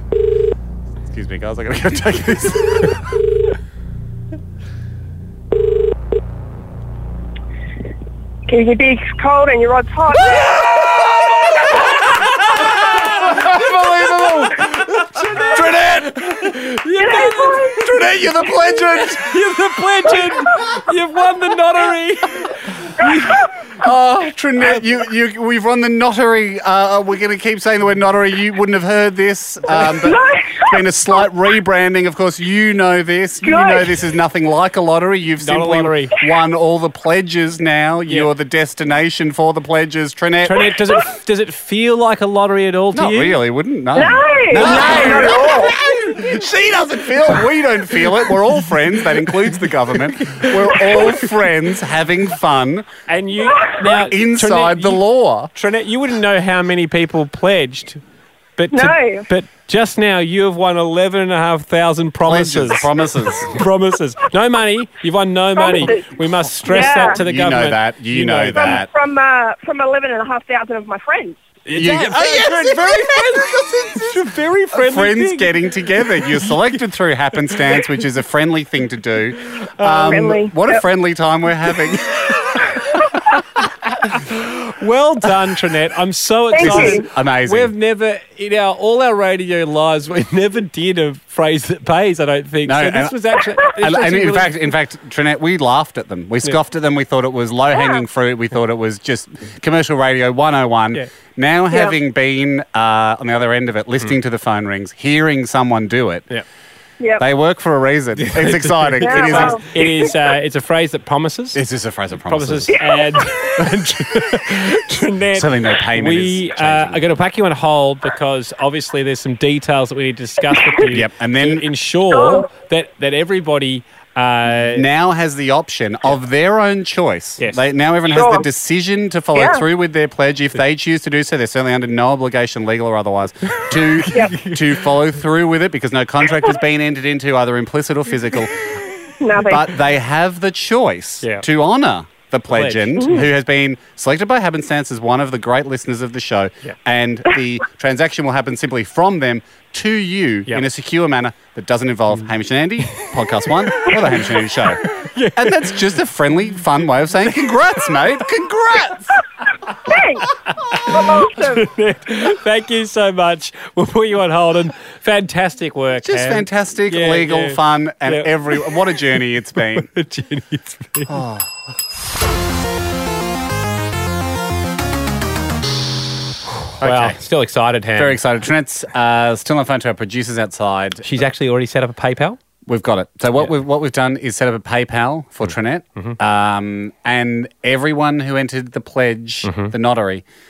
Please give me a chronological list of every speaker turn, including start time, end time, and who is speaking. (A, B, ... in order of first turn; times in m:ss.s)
0:01.0-0:03.1 A
0:08.5-0:11.0 B
0:10.4-0:11.7 A
0:13.0-0:16.5 A
0:14.6-0:17.8 C
0:17.0-0:17.9 B
0:17.8-0:19.2 A
0:19.0-0:23.4 C
0:23.1-0:23.5 B
0:23.8-0:40.8 A
0:29.7-0:30.8 B
0:33.4-0:34.0 B
0:35.4-0:36.2 C
0:40.4-0:43.4 C
0:42.9-0:52.9 A
0:43.9-0:45.8 B
0:50.3-0:51.1 C
0:53.1-0:55.0 C
0:53.5-0:53.8 B
0:53.9-0:55.5 A
0:55.6-0:58.0 C
0:58.6-1:02.9 C
0:58.7-0:59.3 B
1:02.3-1:03.6 A
1:03.5-1:08.8 C
1:05.6-1:06.2 B
1:06.7-1:07.2 B
1:06.7-1:08.9 A
1:08.6-1:11.4 B
1:11.6-1:16.8 C
1:11.7-1:14.1 A
1:14.7-1:23.4 A
1:17.4-1:17.9 C
1:19.6-1:20.1 C
1:19.9-1:20.8 B
1:24.0-1:34.6 C
1:26.5-1:27.1 B
1:26.6-1:27.7 A
1:32.6-1:46.3 A
1:37.8-1:38.0 B
1:47.0-1:47.2 B
1:47.2-1:49.6 A
1:48.2-1:51.6 C
1:49.0-1:50.2 B
1:51.5-1:52.8 A
1:52.2-2:04.9 C
1:52.7-1:53.4 B
1:55.3-1:57.0 A
2:00.9-2:01.7 A
2:04.5-2:18.8 A
2:08.1-2:08.5 B
2:09.4-2:09.6 B
2:13.5-2:14.6 C
2:14.1-2:14.4 B
2:19.2-2:19.7 B
2:19.4-2:34.8 A
2:22.5-2:23.2 C
2:23.0-2:23.2 B
2:33.7-2:34.3 C
2:34.9-2:35.8 C
2:35.4-2:39.2 A
2:39.8-2:40.3 B
2:40.5-2:49.0 C
2:40.9-2:41.7 B
2:46.0-2:49.9 A
2:49.6-2:51.2 C
2:51.1-2:51.6 A
2:56.8-2:58.2 C
2:56.8-2:57.2 A
2:58.0-3:01.2 A
3:01.0-3:02.4 C
3:02.7-3:10.2 A
3:09.4-3:09.7 C